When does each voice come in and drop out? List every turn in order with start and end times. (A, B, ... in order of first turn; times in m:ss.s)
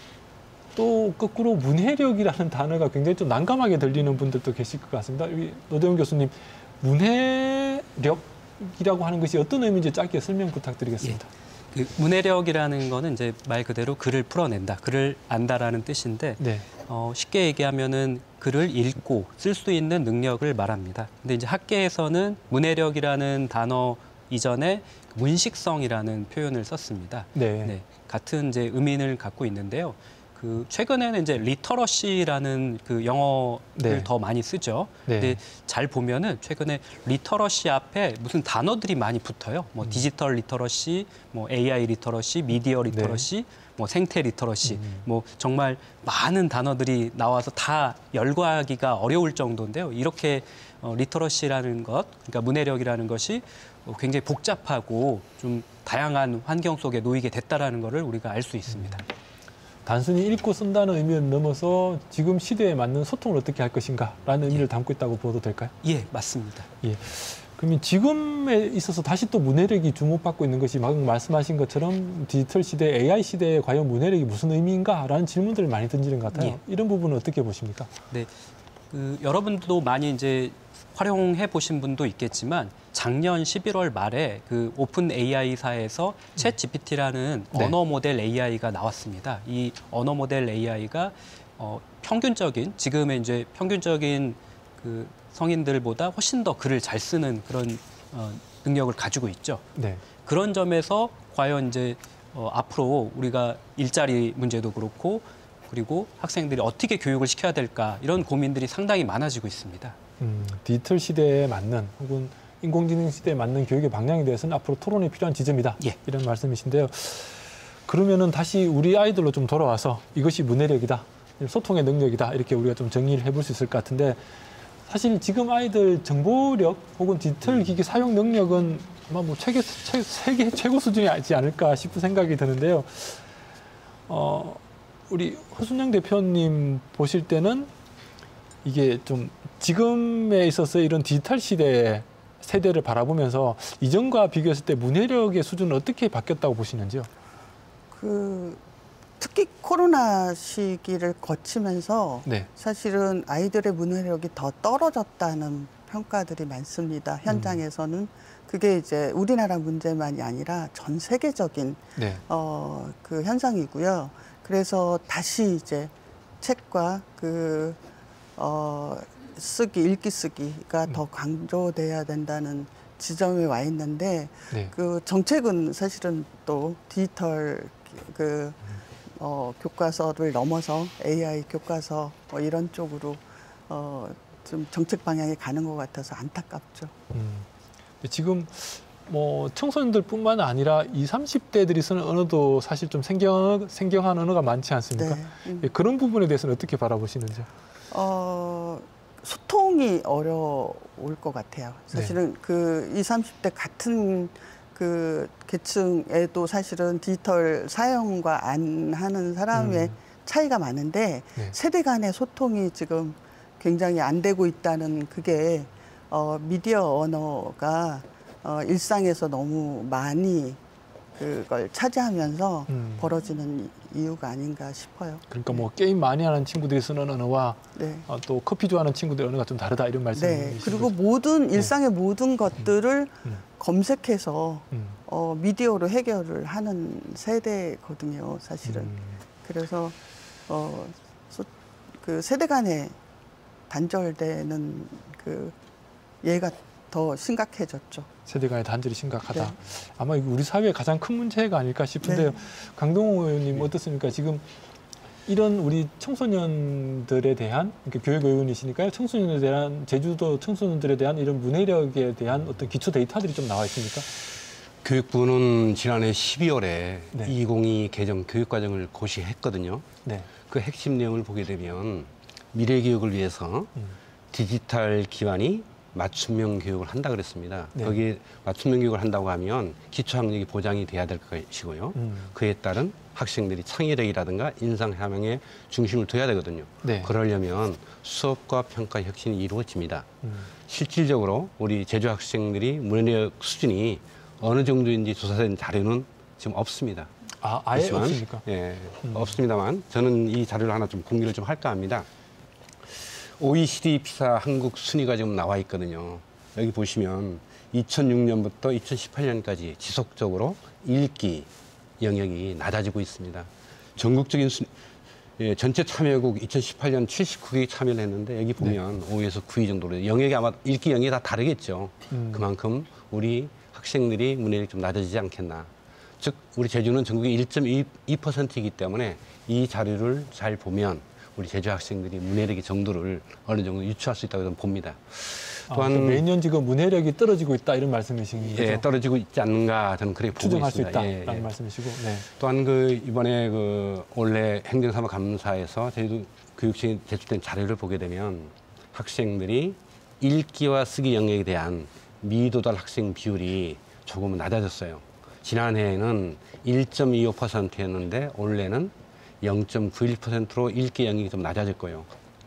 0:00.8-0:11.3 A
0:11.7-0:59.0 B
0:16.4-0:16.7 A
0:27.4-0:27.7 A
0:33.8-0:34.1 A
0:35.1-0:35.4 A
0:39.8-0:40.1 A
0:42.9-0:43.3 A
0:44.6-0:45.0 A
0:58.7-0:59.0 A
0:59.8-1:05.7 A
1:05.8-1:06.7 B
1:06.8-1:18.0 A
1:18.9-1:39.6 B
1:39.8-1:40.0 A
1:40.2-1:50.0 B
1:50.2-2:04.2 A
2:04.9-2:13.2 A
2:14.1-2:17.7 A
2:18.6-2:27.1 A
2:27.9-2:28.6 C
2:29.2-2:47.8 C
2:37.3-2:37.6 A
2:42.0-2:42.2 A
2:48.4-3:06.9 C
3:07.1-3:07.5 A
3:08.0-3:17.5 A
3:15.0-3:15.7 C
3:17.9-3:40.6 C
3:29.5-3:29.9 A
3:41.2-3:45.6 C
3:42.7-3:43.1 A
3:45.3-3:50.9 A
3:47.8-3:48.1 C
3:50.2-4:00.0 C
3:54.7-3:55.0 A
3:58.6-3:59.2 A
4:00.5-4:03.0 C
4:03.7-4:05.6 C
4:06.2-4:08.1 C
4:08.3-4:14.5 A
4:12.0-4:12.3 C
4:15.3-4:24.3 A
4:24.8-4:29.9 D
4:30.5-4:33.7 D
4:34.3-4:50.1 D
4:42.0-4:42.3 A
4:46.8-4:47.1 A
4:50.2-4:50.5 A
4:50.7-4:57.1 D
4:57.4-4:58.4 A
4:57.8-5:02.1 D
4:59.0-4:59.3 A
5:03.0-5:11.5 D
5:12.0-5:14.7 D
5:15.4-5:36.2 D
5:22.1-5:22.5 A
5:35.7-5:38.8 A
5:38.4-5:41.5 D
5:40.4-5:42.3 A
5:42.4-6:02.1 D